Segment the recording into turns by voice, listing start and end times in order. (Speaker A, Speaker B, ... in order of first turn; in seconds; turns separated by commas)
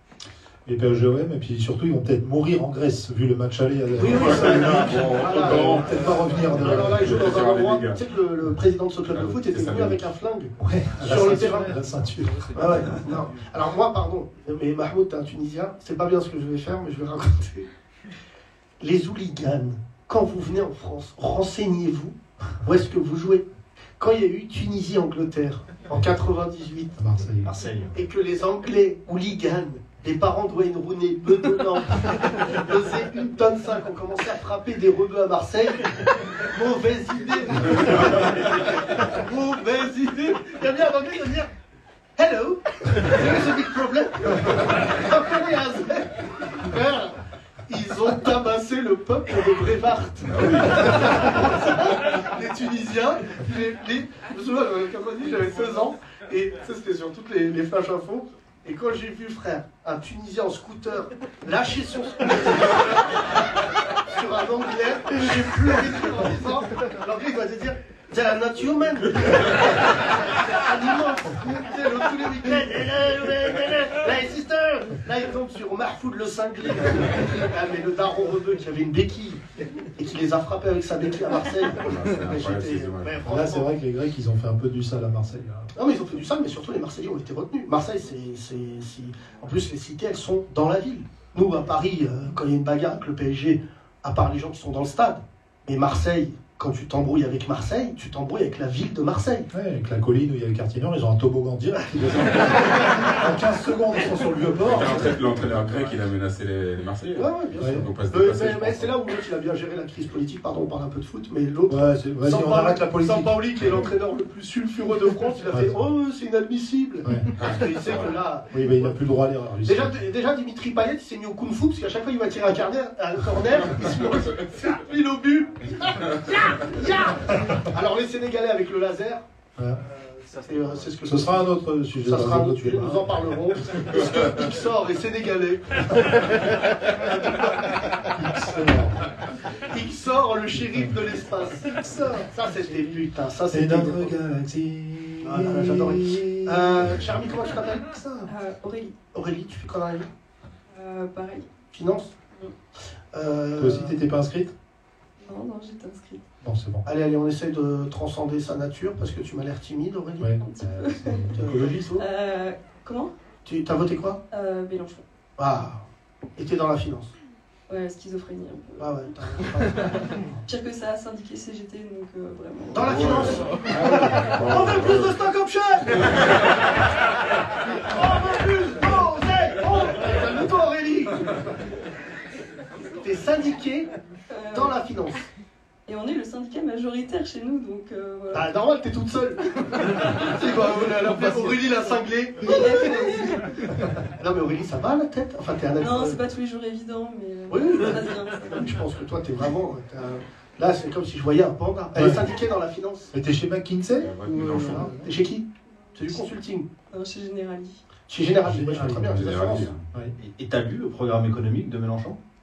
Speaker A: 0.7-7.2, Speaker B: 4.0-11.8, Speaker C: 4.0-8.0, Speaker C: 9.1-10.0, Speaker A: 10.6-13.0, Speaker B: 12.5-17.7, Speaker B: 18.8-23.4, Speaker B: 24.0-27.0, Speaker A: 26.9-27.5, Speaker D: 27.4-28.0, Speaker B: 27.9-41.5, Speaker B: 42.2-79.4, Speaker C: 50.2-51.4, Speaker B: 80.0-83.7, Speaker C: 81.8-83.4, Speaker A: 83.2-85.7, Speaker B: 85.7-99.5, Speaker A: 99.5-105.6, Speaker C: 104.6-108.9, Speaker B: 107.1-119.0, Speaker A: 107.6-107.8, Speaker A: 111.7-113.8, Speaker A: 115.5-115.8, Speaker A: 117.0-117.3, Speaker C: 117.3-118.2, Speaker A: 118.5-120.0, Speaker B: 119.6-129.2, Speaker A: 127.3-127.6, Speaker B: 129.8-131.5, Speaker A: 131.0-133.2, Speaker B: 132.0-138.0, Speaker A: 137.9-139.2, Speaker B: 139.6-141.7, Speaker A: 140.5-141.0, Speaker A: 141.7-143.0, Speaker B: 142.3-144.2, Speaker A: 143.5-147.2, Speaker B: 145.2-148.0, Speaker A: 147.8-148.3, Speaker E: 148.3-148.9, Speaker B: 149.1-150.1, Speaker E: 150.7-151.5, Speaker B: 151.7-152.1, Speaker B: 153.1-154.0, Speaker A: 153.6-154.5, Speaker E: 155.2-156.2, Speaker A: 156.4-156.8, Speaker B: 156.8-160.3, Speaker A: 160.2-161.9, Speaker E: 160.4-161.3, Speaker B: 161.3-162.1, Speaker E: 161.9-163.1, Speaker B: 163.4-164.2, Speaker E: 164.3-165.0, Speaker B: 165.4-165.8, Speaker B: 166.4-167.1, Speaker E: 167.7-169.9, Speaker B: 168.8-170.4, Speaker E: 170.4-173.6, Speaker B: 172.7-176.6, Speaker C: 172.8-175.2, Speaker B: 177.5-181.6, Speaker B: 182.8-183.9, Speaker E: 184.3-184.8, Speaker B: 184.5-185.3, Speaker E: 185.9-188.6, Speaker B: 188.3-196.2, Speaker E: 190.4-193.6, Speaker E: 195.8-198.8, Speaker B: 197.5-203.1, Speaker A: 201.9-202.3, Speaker A: 203.1-205.1, Speaker C: 204.0-204.9, Speaker B: 204.4-206.7, Speaker E: 205.7-206.3, Speaker E: 206.9-207.8, Speaker B: 208.1-209.7, Speaker A: 208.4-209.3, Speaker C: 209.1-209.8, Speaker D: 210.2-212.2